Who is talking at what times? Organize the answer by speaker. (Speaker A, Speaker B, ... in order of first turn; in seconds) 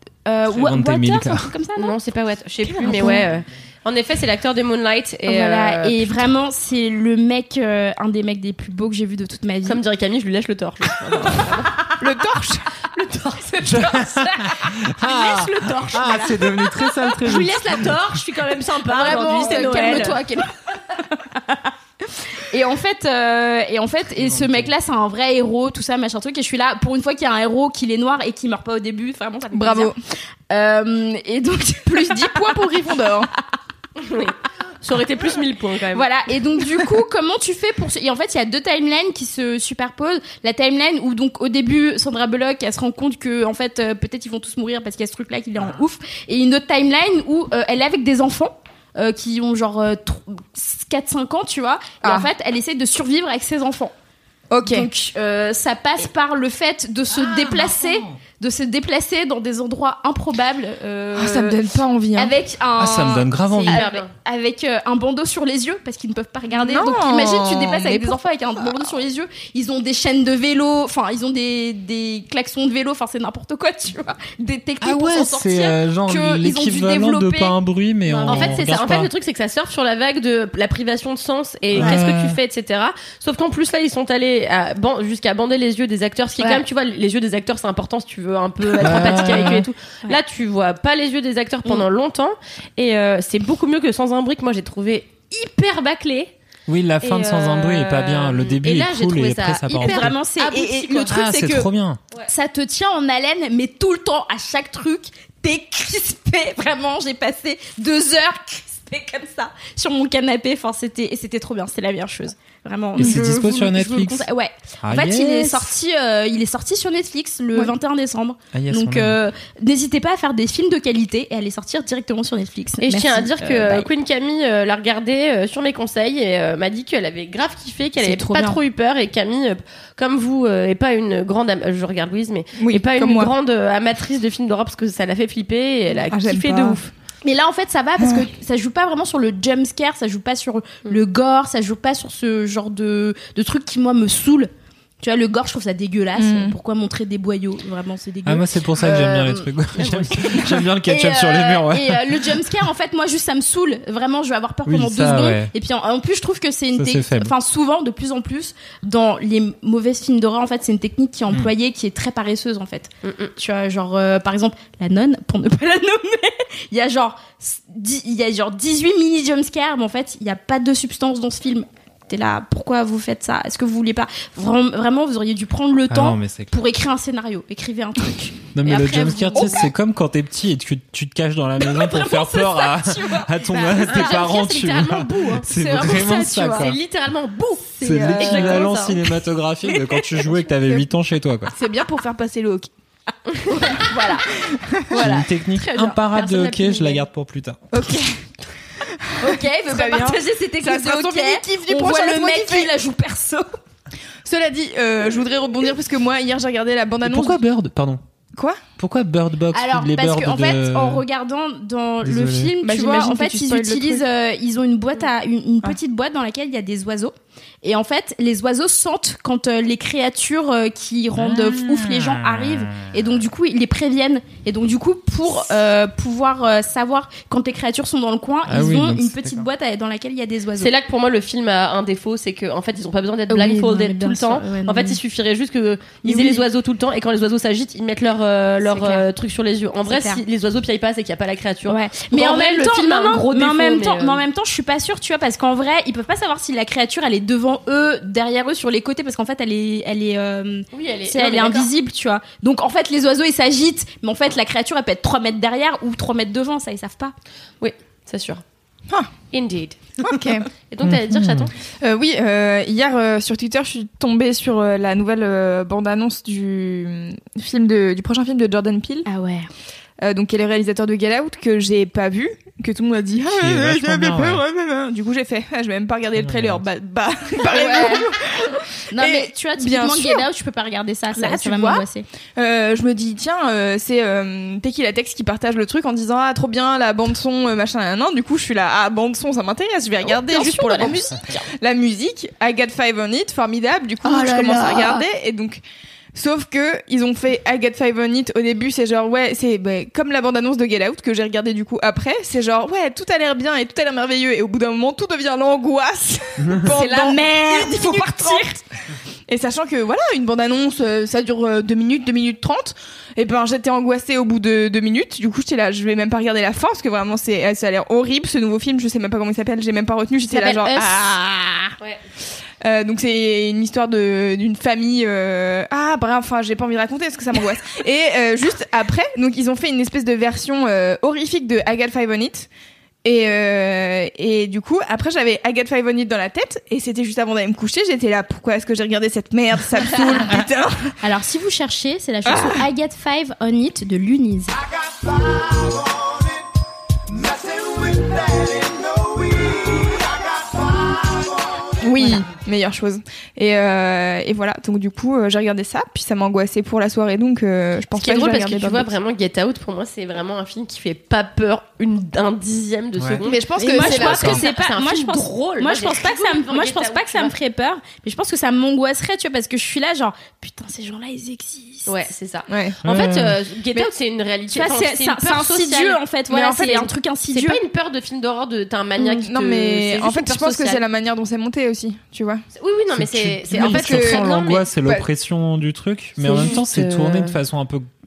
Speaker A: 0.2-1.9, 2.8-3.2, 5.2-9.8, 13.5-16.9, 18.8-21.7, 22.3-29.9, 30.5-32.6, 35.9-53.9, 54.6-61.6, 62.1-77.6, 78.2-78.7, 86.4-86.6, 88.8-90.2, 99.7-101.7, 102.3-123.9, 128.0-128.6, 137.2-149.5, 150.2-179.6, 181.6-184.2, 185.5-186.7, 187.8-188.7, 193.4-194.3, 194.9-197.0, 199.2-203.5, 209.5-230.7, 233.3-235.0, 236.0-236.4, 238.6-239.1, 239.8-240.2, 241.7-257.1, 269.1-269.5, 277.5-278.1, 278.9-282.1, 290.1-291.0, 294.0-295.0, 306.6-308.6, 320.3-321.8, 341.0-344.6, 352.0-352.2, 363.6-371.9, 374.5-377.6
Speaker B: 0.5-1.5, 13.6-18.1, 24.1-24.7, 57.1-58.2, 62.8-63.8, 74.8-79.1, 81.7-82.4, 88.8-89.7, 96.7-100.1, 101.1-102.0, 113.0-114.3, 114.8-115.7, 118.5-119.2, 148.2-152.4, 154.7-155.5, 156.7-157.3, 175.9-176.5, 178.5-186.8, 187.8-191.5, 194.9-197.6, 207.0-208.0, 208.8-211.0, 212.0-212.5, 221.1-222.8, 228.5-229.4, 260.8-261.5, 273.2-274.4, 276.1-276.6, 306.4-306.7, 372.8-373.4, 382.9-387.9
Speaker C: 1.8-6.2, 9.6-11.8, 12.9-13.8, 15.3-16.1, 17.2-20.2, 34.0-36.0, 63.7-64.1, 78.1-96.3, 97.0-101.1, 122.8-136.9, 149.8-150.1, 163.0-163.3, 183.5-189.0, 230.6-244.2, 250.7-251.7, 257.6-258.4, 259.3-259.8, 260.7-261.5, 290.3-291.0, 357.9-367.3, 371.9-376.0, 377.3-380.8, 382.5-384.7, 386.2-387.3
Speaker D: 2.8-3.2, 12.0-12.7, 19.4-20.0, 29.5-30.0, 31.9-33.3, 52.0-52.3, 54.5-54.9, 61.1-62.3, 66.6-68.2, 132.6-133.3, 136.1-136.8, 138.0-138.3, 146.2-146.5, 191.5-192.7, 194.5-195.0, 197.7-198.2, 199.1-202.7, 204.2-207.4, 212.6-214.0, 260.0-260.5, 261.8-269.1, 270.0-280.2, 281.1-281.8, 282.4-295.6, 296.1-308.5, 309.3-321.1, 322.6-332.5, 333.0-340.9, 342.2-342.6, 351.8-358.9, 363.2-364.4, 372.5-372.8, 376.3-376.9, 379.0-382.4, 383.5-384.2